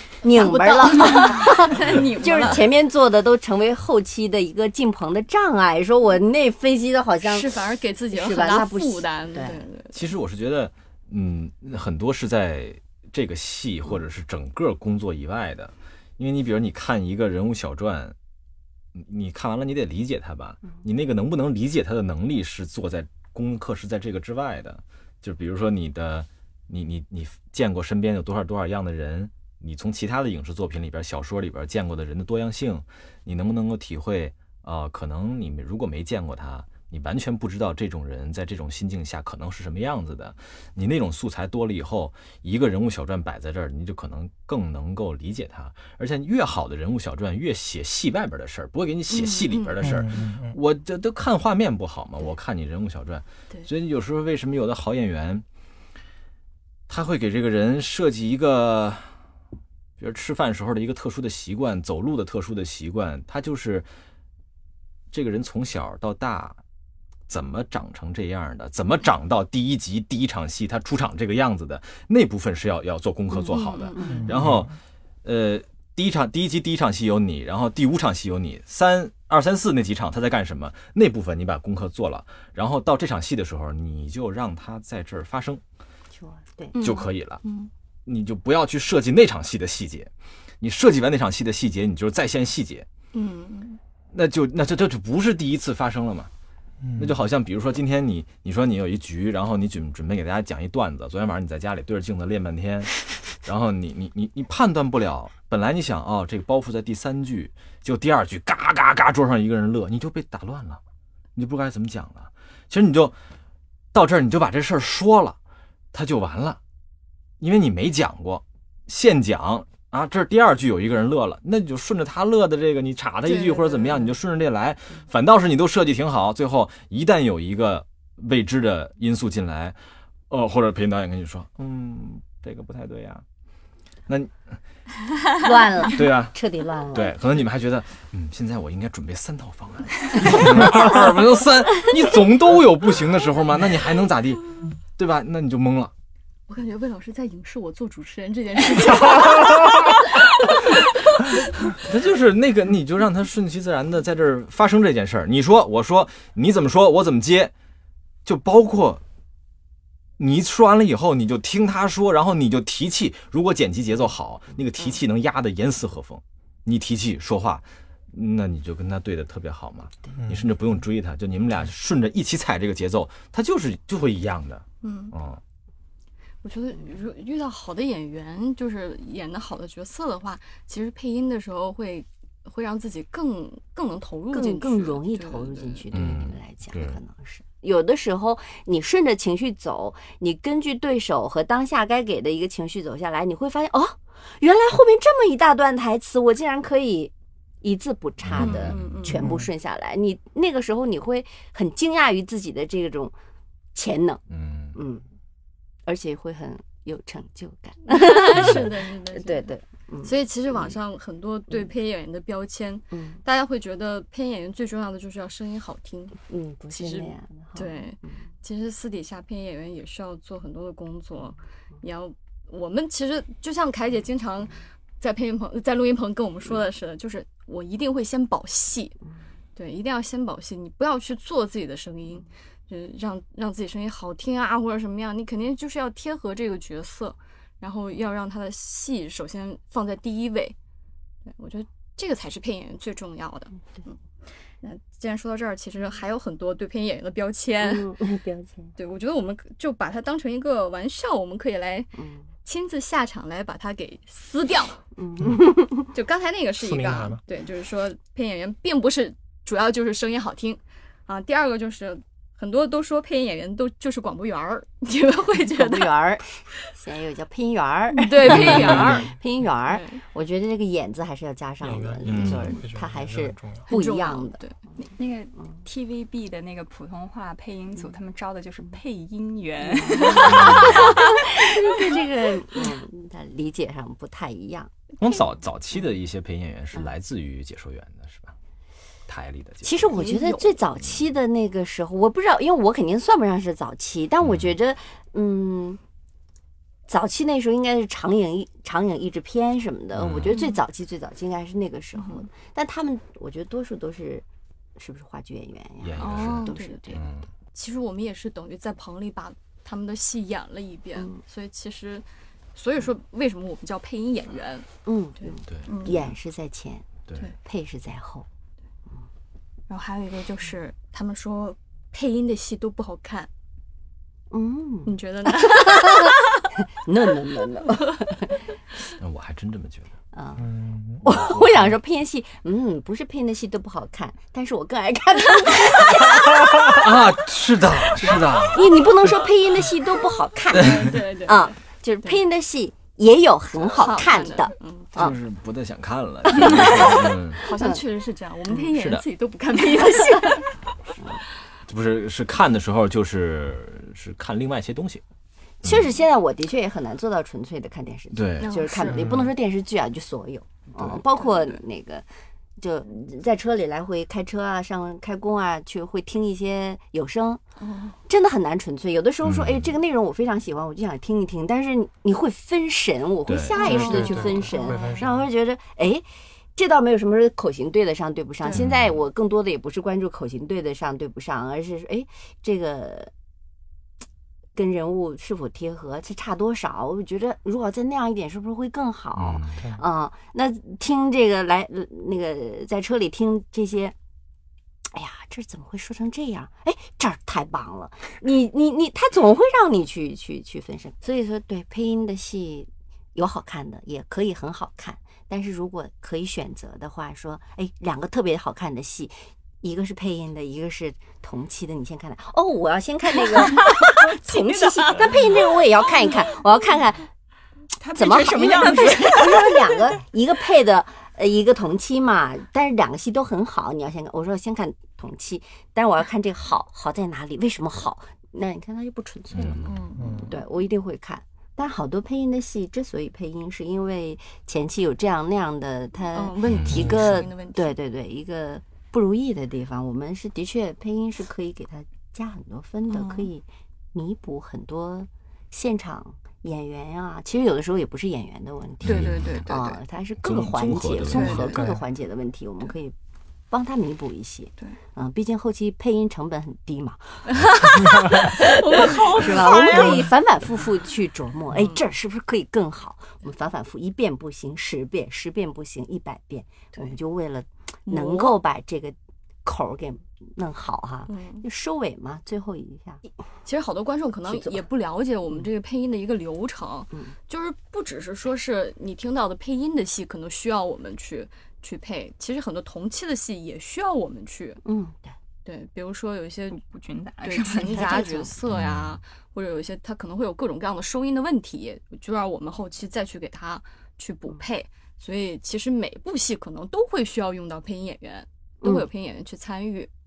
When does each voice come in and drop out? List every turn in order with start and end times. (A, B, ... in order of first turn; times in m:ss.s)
0:00.2-0:07.5 A
0:00.3-0:02.8 B
0:07.2-0:09.9 B
0:08.1-0:09.6 A
0:09.9-0:18.1 C
0:18.9-0:55.4 C
0:49.1-0:49.8 B
0:49.8-0:50.6 D
0:56.9-0:59.1 C
1:00.0-1:03.9 C
1:05.1-1:06.6 C
1:07.3-1:25.6 C
1:13.5-1:14.2 B
1:13.5-1:14.3 A
1:14.1-1:14.7 D
1:26.1-1:26.8 A
1:26.7-1:27.7 B
1:26.8-1:27.4 C
1:28.0-1:32.8 C
1:33.1-1:33.8 B
1:34.1-1:36.3 C
1:36.8-1:37.1 D
1:37.0-1:50.8 C
1:51.4-1:53.1 C
1:53.9-1:55.4 C
1:55.9-1:56.6 C
1:57.4-2:09.8 C
2:03.2-2:04.1 B
2:10.3-2:13.2 C
2:14.1-2:14.6 C
2:15.4-2:17.1 A
2:15.9-2:16.4 C
2:16.9-2:25.9 C
2:26.5-2:31.3 B
2:31.7-2:37.5 C
2:38.2-2:39.0 C
2:40.2-2:55.4 C
2:50.2-2:50.5 D
2:54.8-2:55.1 B
2:56.4-3:05.8 B
3:04.3-3:23.1 A
3:05.9-3:07.0 C
3:18.2-3:19.3 C
3:18.4-3:19.2 B
3:19.2-3:19.4 D
3:23.7-3:24.2 A
3:24.3-3:24.8 C
3:24.7-3:25.0 A
3:25.8-3:30.8 A
3:27.8-3:29.5 B
3:30.0-3:36.2 B
3:32.9-3:33.2 A
3:36.2-3:38.2 A
3:36.7-3:49.0 B
3:49.6-4:00.5 B
4:01.2-4:04.0 B
4:04.6-4:07.9 B
4:07.6-4:08.7 A
4:08.8-4:11.9 B
4:12.0-4:12.3 A
4:12.4-4:14.8 B
4:15.0-4:15.9 A
4:15.2-4:15.4 D
4:15.9-4:26.0 B
4:16.6-4:17.2 D
4:25.5-4:34.4 A
4:27.9-4:29.1 B
4:28.4-4:29.0 D
4:29.6-4:30.0 B
4:31.6-4:33.7 D
4:32.0-4:32.6 C
4:33.7-4:34.6 B
4:35.0-4:41.4 E
4:40.0-4:40.3 B
4:40.1-4:44.7 A
4:40.2-4:41.0 C
4:45.0-4:48.3 C
4:49.1-4:50.0 C
4:49.6-4:55.8 A
4:49.9-4:50.6 B
4:54.2-4:54.5 C
4:56.9-5:04.2 A
4:59.9-5:00.4 C
5:00.3-5:00.6 B
5:02.0-5:02.2 B
5:04.8-5:07.0 A
5:05.8-5:07.3 C
5:06.0-5:07.0 B
5:07.5-5:14.7 B
5:14.8-5:18.3 A
5:15.2-5:16.0 B
5:15.5-5:16.1 C
5:19.7-5:23.3 B
5:24.3-5:26.2 A
5:24.8-5:26.5 B
5:26.7-5:28.5 A
5:29.0-5:29.9 C
5:30.1-5:30.5 A
5:30.4-5:31.0 D
5:31.0-5:37.0 A
5:31.0-5:31.7 C
5:36.7-5:39.2 C
5:38.0-5:45.1 A
5:40.5-5:42.2 B
5:43.6-5:44.0 C
5:43.8-5:45.1 B
5:45.0-5:47.4 C
5:46.3-5:47.8 A
5:46.3-5:50.5 B
5:48.7-5:49.0 C
5:51.7-5:55.0 C
5:55.6-6:02.0 A
5:55.6-5:56.0 C
5:58.1-5:59.3 C
5:58.4-5:59.1 B
6:00.8-6:01.0 C
6:01.2-6:01.6 B
6:02.6-6:07.4 A
6:07.6-6:08.0 B
6:08.1-6:23.1 A
6:09.2-6:09.7 C
6:13.2-6:14.0 C
6:13.5-6:15.0 B
6:13.7-6:15.2 D
6:18.5-6:19.0 C
6:24.5-6:33.9 A
6:29.2-6:29.6 C
6:34.9-6:57.1 A
6:54.3-6:55.2 E
6:57.8-6:59.9 E
6:58.0-7:09.7 A
7:09.3-7:09.7 C
7:09.6-7:10.4 B
7:10.0-7:10.3 D
7:10.2-7:32.9 A
7:16.1-7:17.8 B
7:16.5-7:17.0 C
7:22.9-7:23.3 B
7:28.8-7:29.5 C
7:28.9-7:29.8 B
7:30.2-7:31.6 C
7:31.1-7:31.6 B
7:31.4-7:31.8 D
7:33.5-7:53.0 A
7:37.3-7:40.1 B
7:47.8-7:48.4 B
7:51.1-7:51.4 B
7:53.4-8:04.6 B
7:54.3-7:54.6 A
8:04.6-8:05.2 A
8:05.4-8:06.6 B
8:06.5-8:08.3 E
8:07.2-8:19.9 B
8:08.5-8:09.0 C
8:18.6-8:18.9 A